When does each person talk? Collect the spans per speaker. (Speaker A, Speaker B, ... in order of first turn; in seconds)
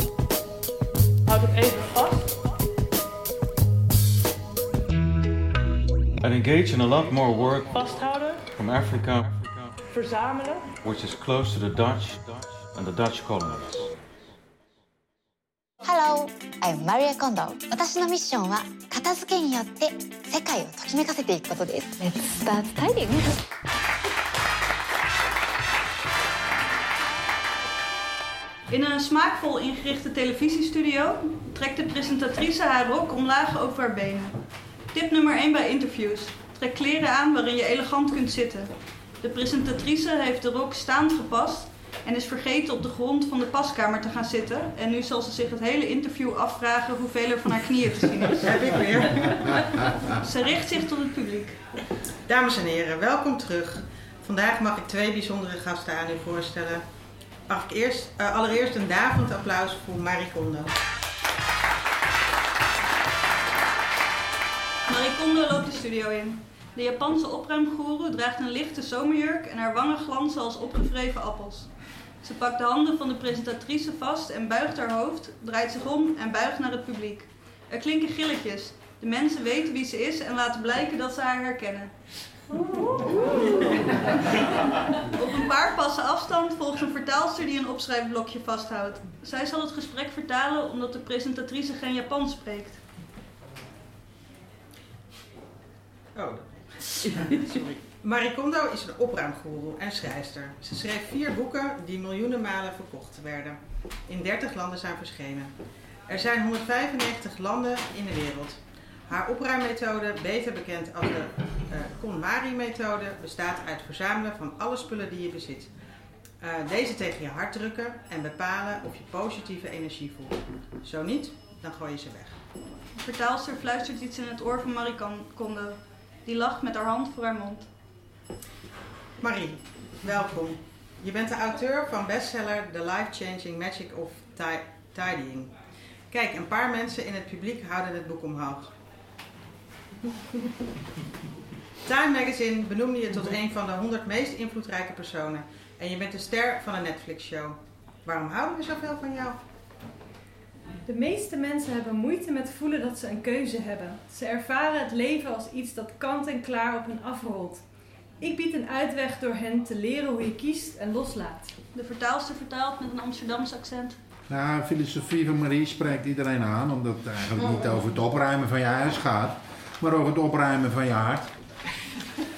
Speaker A: 1.2-2.5, 7.6-8.4, 9.9-10.7
Speaker B: 6.2-8.0, 8.6-9.7, 10.8-14.1
Speaker C: 15.8-23.3
Speaker D: 28.7-34.4, 34.9-48.6, 49.5-51.6, 64.9-81.9, 85.0-92.8, 123.0-127.7, 161.7-164.0
Speaker E: 48.4-49.5, 52.3-56.8, 57.5-60.7, 96.1-105.5, 106.1-115.7, 116.4-122.4, 129.2-135.5, 136.1-138.7, 141.8-149.4
Speaker F: 150.8-157.6, 158.2-161.5
Speaker G: 164.3-171.3